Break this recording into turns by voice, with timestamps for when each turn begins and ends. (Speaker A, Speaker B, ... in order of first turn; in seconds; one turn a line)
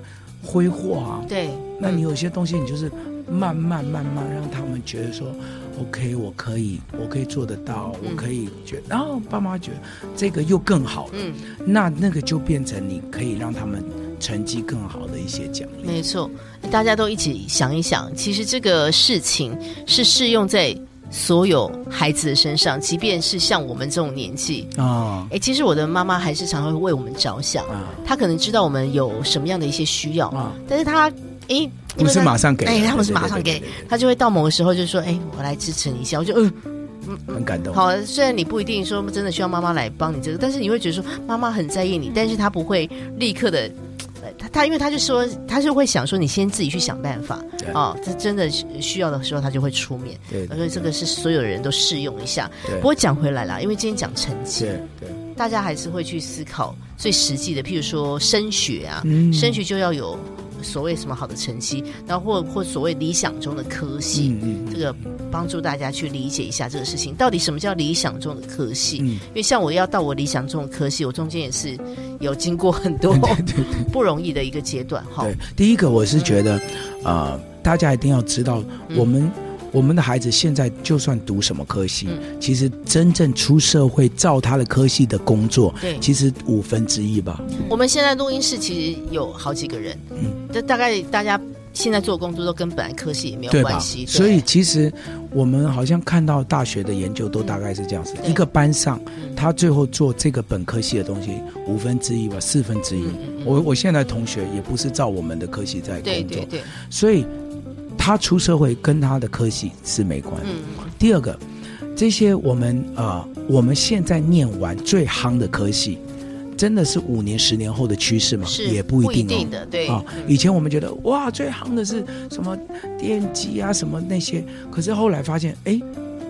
Speaker A: 0.4-16.0
Speaker B: 1.3-2.0
Speaker B: 11.1-11.4
Speaker B: 15.8-24.8
Speaker A: 24.8-25.3
Speaker B: 25.3-54.8
Speaker A: 27.7-28.0
Speaker A: 30.3-30.6
Speaker A: 32.0-33.9
Speaker A: 37.3-37.8
Speaker A: 50.3-50.9
Speaker A: 54.6-55.2
Speaker B: 55.4-75.4
Speaker A: 59.0-59.6
Speaker A: 64.1-64.9
Speaker A: 69.0-69.2
Speaker A: 73.1-73.9
Speaker A: 75.2-87.5
Speaker B: 87.7-94.5
Speaker A: 93.5-107.3
Speaker B: 103.0-103.6
Speaker B: 106.0-106.7
Speaker A: 108.0-111.4
Speaker B: 110.4-110.9
Speaker A: 112.0-116.0
Speaker A: 116.6-125.9
Speaker B: 118.4-120.3